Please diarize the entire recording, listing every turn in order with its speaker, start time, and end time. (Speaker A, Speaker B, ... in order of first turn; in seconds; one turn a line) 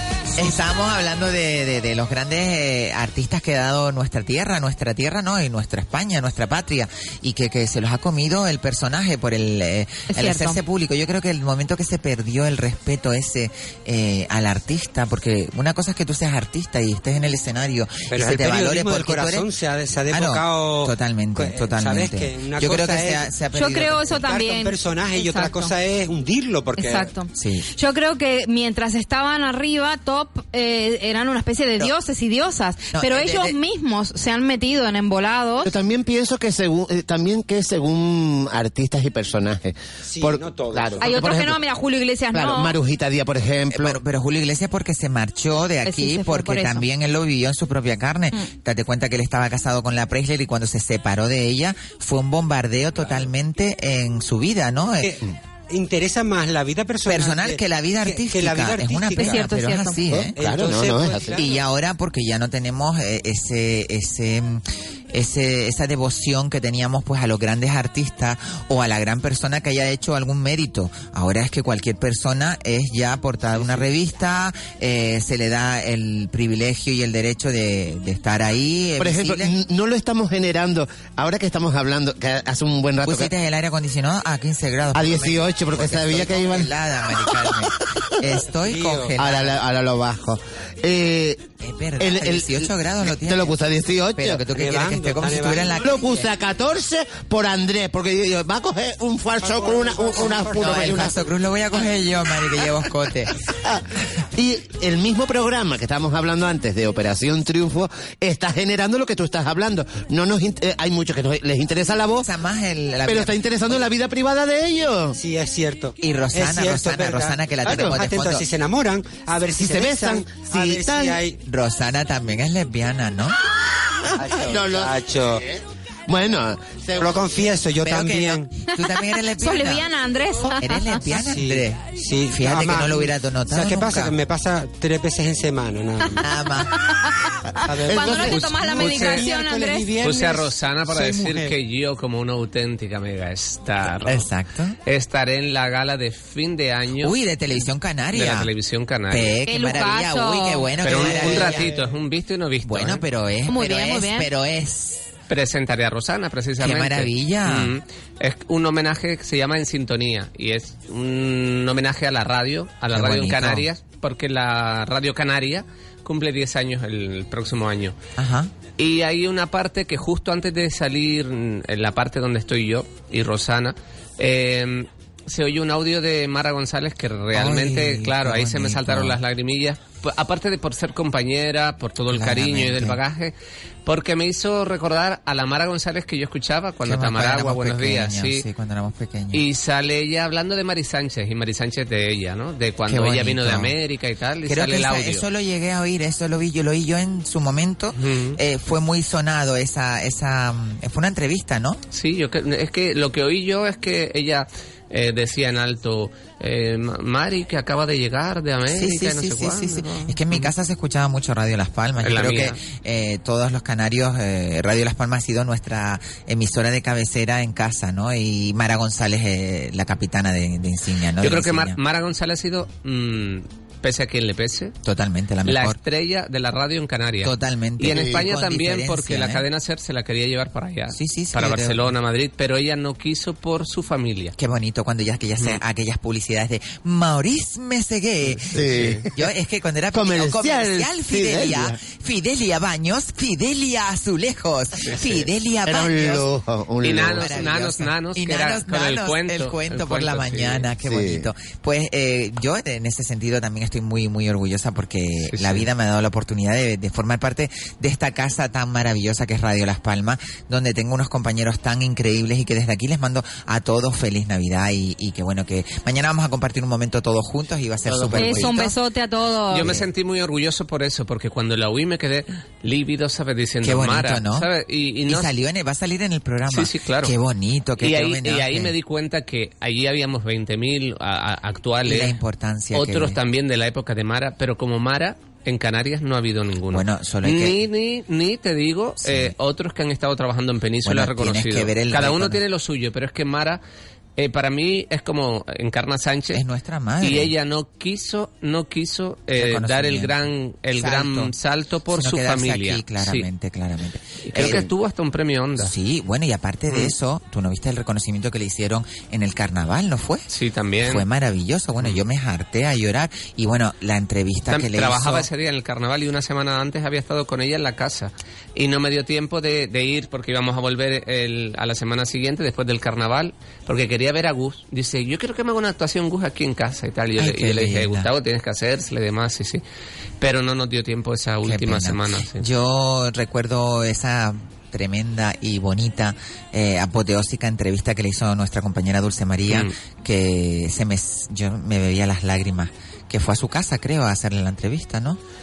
Speaker A: 0.3-19.5
Speaker B: 10.1-10.6
Speaker C: 18.1-23.2
Speaker A: 20.1-24.2
Speaker B: 23.5-25.7
Speaker C: 24.1-27.1
Speaker B: 26.8-35.7
Speaker A: 27.4-27.7
Speaker A: 32.9-33.6
Speaker D: 35.6-41.6
Speaker C: 40.1-41.2
Speaker B: 41.0-42.8
Speaker D: 42.3-44.0
Speaker A: 43.7-55.1
Speaker B: 45.9-46.9
Speaker C: 55.0-59.5
Speaker A: 57.1-60.4
Speaker B: 59.2-60.0
Speaker D: 60.1-61.4
Speaker C: 60.4-61.5
Speaker A: 61.3-79.5
Speaker D: 79.0-83.3
Speaker A: 83.0-89.6
Speaker D: 85.0-87.5
Speaker C: 88.5-89.1
Speaker D: 89.2-91.5
Speaker A: 91.6-93.6
Speaker D: 92.0-94.4
Speaker A: 94.2-96.3
Speaker C: 94.5-95.8
Speaker D: 95.8-101.1
Speaker C: 99.4-101.1
Speaker A: 100.5-103.3
Speaker D: 104.3-112.3
Speaker A: 112.2-113.3
Speaker D: 113.1-115.2
Speaker C: 115.2-121.4
Speaker A: 116.0-118.5
Speaker D: 117.7-118.0
Speaker D: 119.5-121.2
Speaker A: 121.4-123.4
Speaker C: 124.2-125.4
Speaker D: 124.2-127.2
Speaker C: 127.0-128.5
Speaker A: 127.8-129.9
Speaker B: 129.4-131.0
Speaker A: 130.6-134.2
Speaker C: 131.2-136.2
Speaker A: 136.2-136.8
Speaker B: 136.8-137.1
Speaker B: 137.6-139.9
Speaker C: 137.7-141.6
Speaker D: 137.8-138.6
Speaker E: 140.0-144.3
Speaker A: 144.0-144.8
Speaker E: 144.9-147.2
Speaker A: 147.0-148.5
Speaker E: 148.1-149.4
Speaker A: 149.1-151.7
Speaker B: 149.5-150.7
Speaker E: 150.8-153.0
Speaker C: 150.9-151.9
Speaker A: 152.6-155.1
Speaker B: 153.5-154.3
Speaker E: 155.3-168.0
Speaker A: 156.6-157.7
Speaker A: 162.9-163.7
Speaker A: 168.2-168.5
Speaker E: 168.8-183.3
Speaker A: 177.3-179.2
Speaker A: 182.1-183.0
Speaker E: 183.8-188.4
Speaker A: 186.8-189.4
Speaker E: 189.3-195.2
Speaker A: 192.9-193.7
Speaker A: 194.5-201.8
Speaker E: 198.0-198.4
Speaker E: 201.9-210.5
Speaker A: 208.7-221.8
Speaker E: 212.0-212.6
Speaker E: 221.2-224.7
Speaker A: 224.8-225.8
Speaker E: 225.4-234.3
Speaker A: 227.2-229.4
Speaker D: 227.9-228.2
Speaker A: 230.9-231.9
Speaker A: 234.4-246.3
Speaker D: 238.5-239.1
Speaker E: 238.7-239.0
Speaker D: 239.9-241.8
Speaker E: 244.8-245.2
Speaker D: 245.7-247.6
Speaker E: 246.8-250.7
Speaker A: 247.1-268.8
Speaker D: 250.8-251.3
Speaker E: 255.3-255.7
Speaker D: 267.9-268.5
Speaker B: 268.2-269.7
Speaker E: 269.5-275.3
Speaker A: 273.6-274.5
Speaker A: 275.1-278.7
Speaker E: 276.5-277.1
Speaker E: 277.8-282.2
Speaker A: 281.9-283.2
Speaker E: 282.7-293.6
Speaker A: 286.7-287.6
Speaker A: 289.0-289.4
Speaker A: 290.9-292.4
Speaker E: 294.2-296.4
Speaker A: 296.3-297.3
Speaker E: 297.0-303.3
Speaker A: 299.4-301.3
Speaker A: 301.9-304.7
Speaker E: 304.3-305.7
Speaker A: 305.6-310.3
Speaker E: 310.3-311.1
Speaker A: 310.8-315.3
Speaker E: 314.5-329.6
Speaker A: 327.2-328.1
Speaker E: 330.2-332.5
Speaker A: 331.4-345.2
Speaker E: 339.5-339.7